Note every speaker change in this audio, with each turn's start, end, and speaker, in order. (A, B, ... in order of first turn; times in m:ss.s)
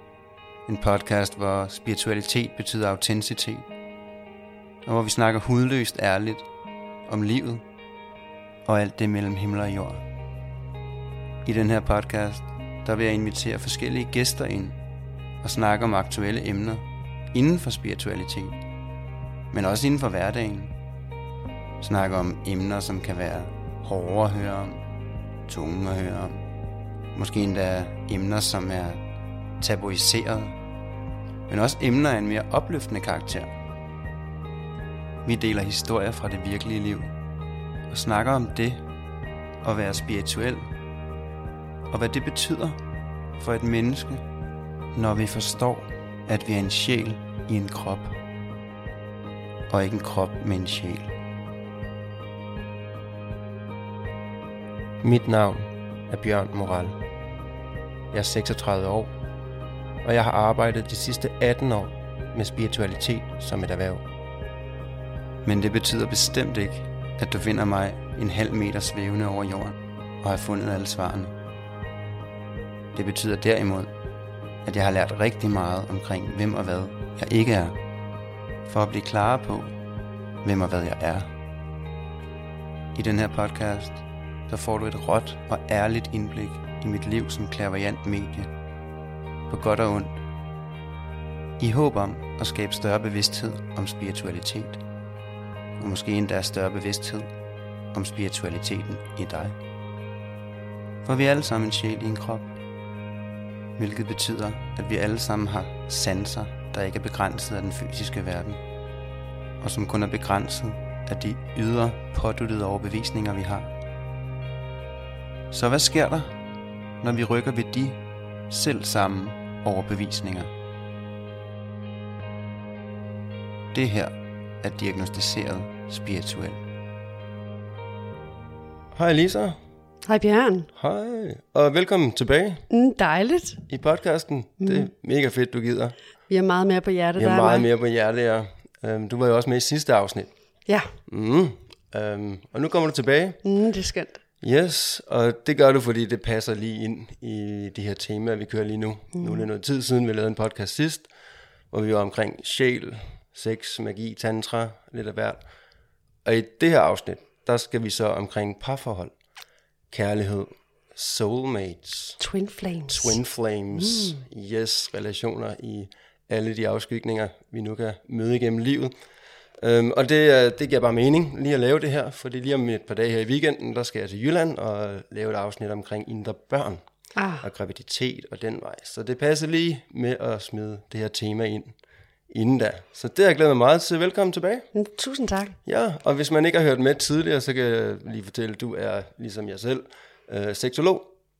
0:00.7-0:03.7 A
0:04.8-0:06.5 A
0:07.1-0:07.6 A
0:08.6-0:10.0 A
0:11.4-0:14.8 A
0:15.4-0:18.6 A
0:19.5-0:20.7 A
0:21.8-0:24.8 A
0:25.5-0:26.5 A
0:27.1-0:29.0 A
0:29.6-0:30.6 A
0:31.5-0:33.5 A
0:35.2-0:37.1 A
0:37.9-0:38.8 A
0:39.6-0:40.7 A
0:41.9-0:42.8 A
0:43.4-0:44.3 A
0:44.9-0:48.2 A
0:49.7-0:51.2 A
0:55.0-0:57.0 B
0:58.1-0:59.1 B
1:00.0-1:04.0 B
1:05.4-1:11.4 A
1:12.9-1:13.9 A
1:14.6-1:17.8 A
1:18.7-1:19.8 A
1:20.4-1:21.3 A
1:23.0-1:28.5 A
1:29.5-1:30.2 A
1:31.6-1:34.8 A
1:35.8-1:37.3 A
1:37.9-1:39.6 A
1:41.0-1:42.6 A
1:43.8-1:48.6 A
1:49.6-1:53.8 A
1:55.5-1:56.4 A
1:57.0-2:00.5 A
2:03.7-2:06.6 A
2:08.9-2:09.6 B
2:10.1-2:10.7 C
2:10.8-2:12.7 B
2:12.7-2:13.6 C
2:13.7-2:16.0 B
2:14.6-2:14.9 C
2:16.3-2:17.7 C
2:17.2-2:20.3 B
2:20.7-2:20.9 C
2:21.1-2:23.4 B
2:23.4-2:24.2 C
2:24.4-2:31.1 B
2:31.7-2:35.4 B
2:36.2-2:39.1 B
2:39.9-2:42.2 B
2:42.2-2:43.2 C
2:42.9-2:48.9 B
2:43.8-2:44.2 C
2:49.6-2:56.8 B
2:57.2-2:57.4 C
2:57.4-3:01.8 B
3:02.3-3:04.7 B
3:04.7-3:05.6 C
3:05.6-3:11.1 B